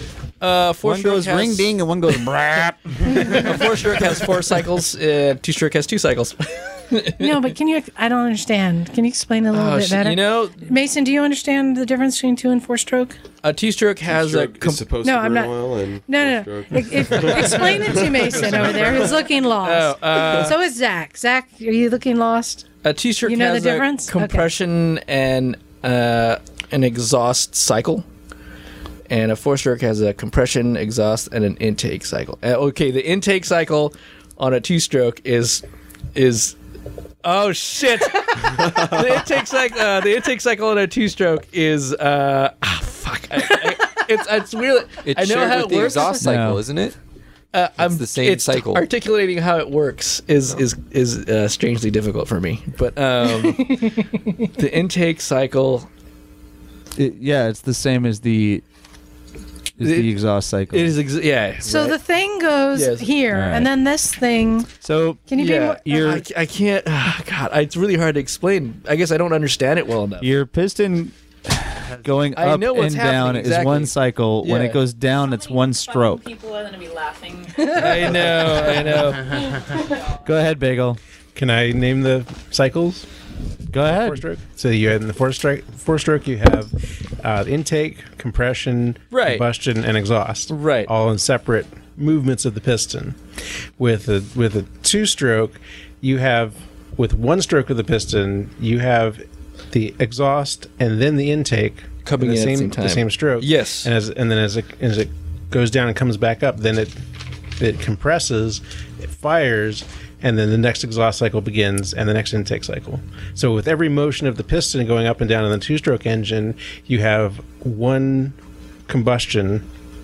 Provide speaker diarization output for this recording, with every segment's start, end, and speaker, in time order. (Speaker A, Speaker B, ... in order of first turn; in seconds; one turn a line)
Speaker A: 0.4-1.7
Speaker B: 0.8-3.7
Speaker A: 3.1-7.3
Speaker C: 7.2-13.2
Speaker A: 9.5-10.6
Speaker A: 13.4-14.8
Speaker D: 14.1-19.1
Speaker C: 15.0-15.5
Speaker C: 16.1-22.6
Speaker A: 19.6-20.6
Speaker A: 22.8-28.0
Speaker C: 23.2-24.5
Speaker A: 29.1-35.6
Speaker A: 36.1-36.5
Speaker A: 37.2-46.2
Speaker E: 45.0-46.9
Speaker B: 46.2-46.6
Speaker A: 47.5-54.0
Speaker E: 47.8-48.8
Speaker C: 53.6-54.0
Speaker A: 54.5-55.9
Speaker B: 57.0-58.6
Speaker B: 59.8-60.9
Speaker A: 59.8-60.1
Speaker A: 60.7-62.0
Speaker C: 61.6-64.7
Speaker A: 62.7-63.1
Speaker B: 63.3-63.7
Speaker B: 64.8-66.2
Speaker C: 65.3-66.2
Speaker A: 65.4-70.3
Speaker B: 70.2-76.2
Speaker A: 72.3-74.8
Speaker F: 75.7-77.8
Speaker A: 77.7-79.3
Speaker B: 80.2-81.0
Speaker G: 81.3-83.0
Speaker B: 83.7-84.2
Speaker G: 83.8-93.2
Speaker A: 89.1-89.4
Speaker A: 90.5-90.9
Speaker G: 93.8-107.0
Speaker A: 102.0-103.9
Speaker G: 107.6-118.3
Speaker G: 118.9-119.6